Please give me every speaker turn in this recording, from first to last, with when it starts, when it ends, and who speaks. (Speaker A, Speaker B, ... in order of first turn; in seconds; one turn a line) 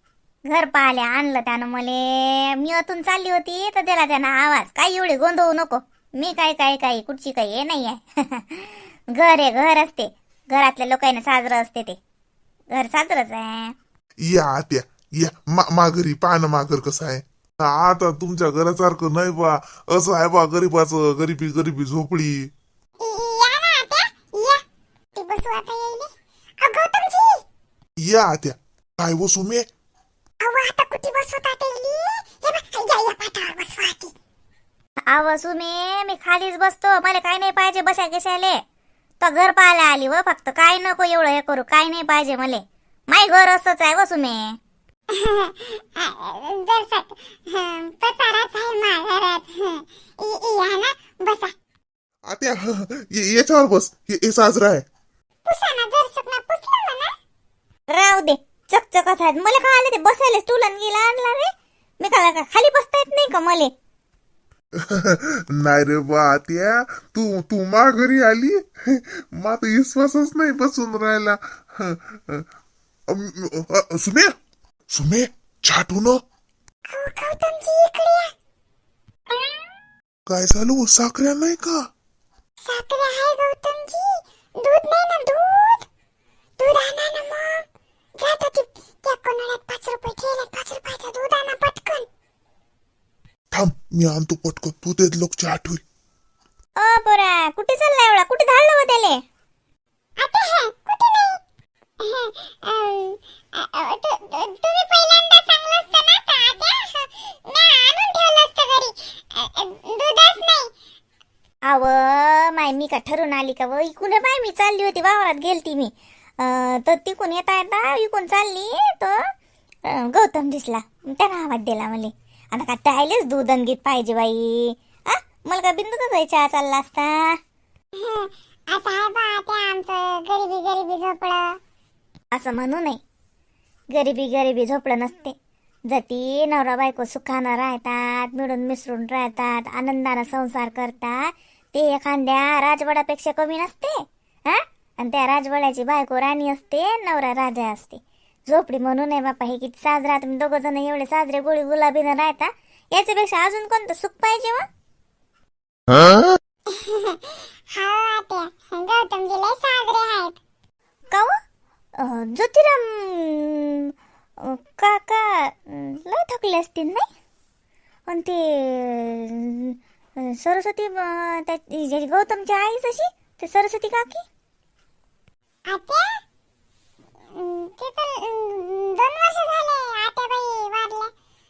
Speaker A: 0.5-12.0
Speaker A: 12.7-13.8
Speaker B: 14.2-22.5
Speaker C: 23.0-24.6
Speaker C: 25.2-27.4
Speaker B: 28.0-29.7
Speaker C: 30.4-34.1
Speaker A: 35.1-38.6
Speaker A: 39.2-44.6
Speaker C: 45.1-51.5
Speaker B: 52.2-54.9
Speaker C: 55.4-57.1
Speaker A: 57.9-63.7
Speaker B: 64.8-72.5
Speaker B: 73.1-74.3
Speaker B: 74.9-76.2
Speaker C: 76.9-78.3
Speaker B: 80.3-81.9
Speaker C: 82.6-84.1
Speaker C: 84.6-85.8
Speaker C: 86.6-87.5
Speaker C: 88.2-92.0
Speaker B: 93.5-95.8
Speaker A: 96.8-99.2
Speaker C: 100.2-101.3
Speaker C: 102.0-110.7
Speaker A: 111.7-119.2
Speaker A: 119.9-127.3
Speaker C: 128.0-131.5
Speaker A: 132.3-133.0
Speaker A: 133.9-135.3
Speaker A: 135.9-143.9
Speaker A: 144.5-154.7
Speaker C: 156.7-160.4
Speaker A: 162.0-167.1
Speaker A: 168.1-174.2
Speaker C: 175.7-176.0
Speaker C: 177.3-181.1